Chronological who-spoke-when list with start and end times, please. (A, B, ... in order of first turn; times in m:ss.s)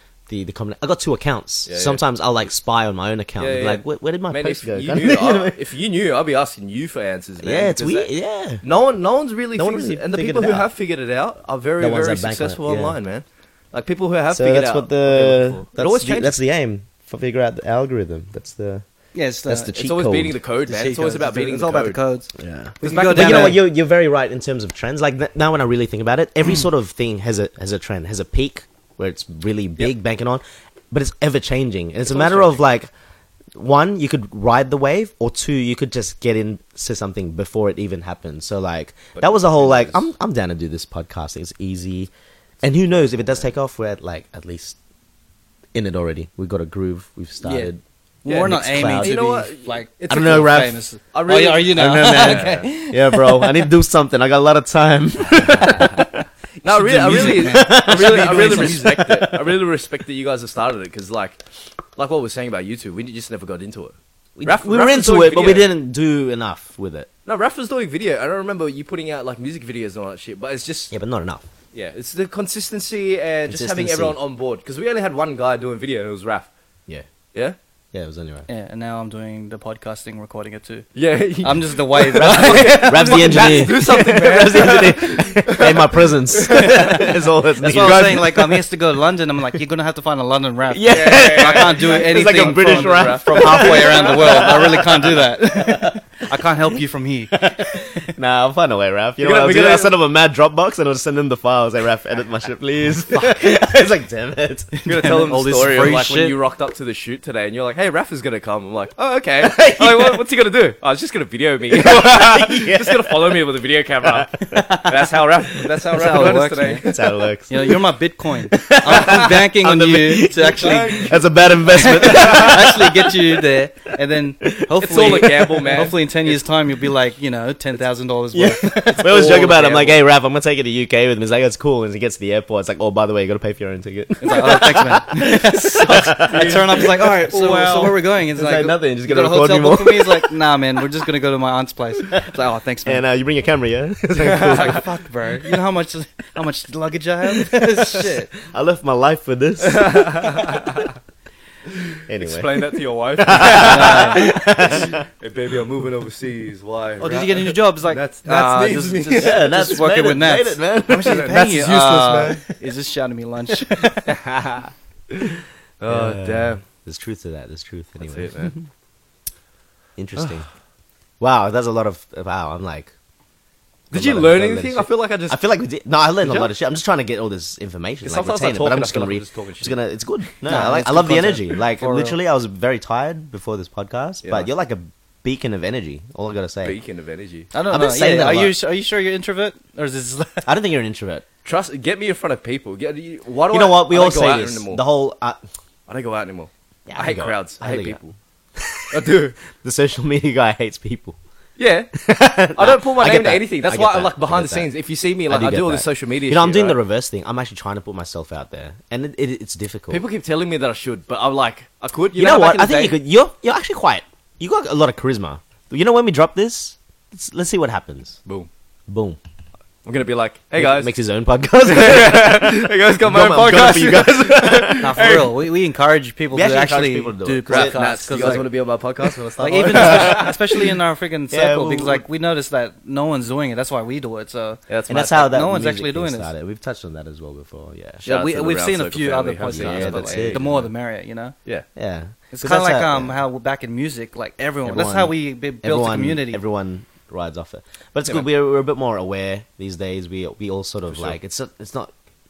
0:00.3-0:05.6 A
0:01.7-0:02.0 B
0:03.4-0:08.1 B
0:07.4-0:08.6 A
0:08.6-0:16.4 B
0:09.6-0:10.7 A
0:11.8-0:13.0 A
0:14.3-0:18.8 A
0:19.1-0:19.7 C
0:19.4-0:20.4 A
0:19.7-0:22.0 B
0:20.6-0:23.6 C
0:22.4-0:32.9 A
0:22.8-0:23.6 B
0:32.1-0:32.6 B
0:33.5-0:42.1 A
0:39.2-0:40.0 B
0:42.6-0:44.8 A
0:43.1-0:43.4 B
0:45.7-0:47.8 A
0:47.4-0:47.7 C
0:48.2-0:53.7 C
0:48.2-0:50.5 B
0:48.3-0:49.2 A
0:50.1-0:50.8 A
0:51.1-0:52.7 B
0:51.7-0:56.2 A
0:56.6-1:01.4 B
0:56.7-0:58.9 C
0:56.8-0:59.6 A
1:02.0-1:05.7 B
1:04.4-1:07.1 A
1:07.2-1:10.9 B
1:10.9-1:11.4 A
1:11.7-1:16.5 B
1:13.5-1:14.2 A
1:17.9-1:18.5 A
1:18.5-1:20.9 C
1:20.9-1:27.0 B
1:21.4-1:23.6 C
1:22.1-1:28.6 A
1:26.5-1:38.1 C
1:30.7-1:35.9 A
1:30.8-1:34.8 B
1:37.3-1:44.7 A
1:39.2-1:39.9 B
1:44.8-1:46.4 C
1:44.8-1:56.9 B
1:49.4-1:50.2 A
1:51.7-1:53.4 A
1:54.0-1:54.9 A
1:54.5-1:54.8 C
1:55.9-1:56.9 C
1:56.8-1:57.8 A
1:57.5-2:09.8 C
1:58.5-2:03.4 A
1:58.9-1:59.4 B
2:00.6-2:01.2 B
2:02.0-2:02.6 B
2:04.4-2:05.6 A
2:04.8-2:06.4 B
2:08.3-2:16.9 A
2:09.1-2:10.0 B
2:14.2-2:23.0 C
2:15.9-2:18.0 B
2:18.3-2:20.3 A
2:22.8-2:24.9 A
2:24.2-2:24.8 B
2:24.4-2:28.3 C
2:27.3-2:30.7 A
2:29.6-2:30.9 B
2:32.1-2:35.0 A
2:32.2-2:39.4 B
2:33.5-2:34.3 C
2:37.0-2:44.1 C
2:39.2-2:41.3 A
2:41.0-2:42.4 B
2:44.1-2:46.6 B
2:45.8-2:48.4 A
2:48.0-2:48.5 B
2:50.0-2:50.5 A
2:51.2-2:52.9 A
2:53.9-2:55.4 B
2:53.9-3:06.8 A
2:56.2-2:56.5 B
2:58.0-2:59.8 B
3:00.4-3:02.2 C
3:04.2-3:04.5 B
3:06.6-3:07.5 B
3:07.5-3:10.5 C
3:07.7-3:08.5 A
3:10.4-3:11.2 A
3:11.4-3:14.8 B
3:13.5-3:15.4 A
3:15.9-3:18.0 B
3:16.9-3:21.2 A
3:18.9-3:19.4 B
3:21.6-3:21.9 B
3:21.9-3:24.7 A
3:22.5-3:26.8 B
3:25.3-3:30.0 A
3:29.9-3:33.0 B
3:32.1-3:38.2 A
3:38.9-3:39.2 A
3:39.8-3:40.9 B
3:40.6-3:45.2 A
3:41.6-3:45.4 B
3:44.8-3:48.5 C
3:46.3-3:48.3 A
3:47.5-3:50.7 B
3:49.4-3:56.3 C
3:49.7-3:50.3 A
3:51.3-3:52.0 A
3:54.7-3:55.3 B
3:54.9-3:58.0 A
3:58.0-4:01.3 C
3:58.0-4:00.7 B
3:59.5-4:00.4 A
4:01.8-4:03.2 A
4:02.3-4:06.4 C
4:04.6-4:11.9 A
4:10.9-4:11.2 B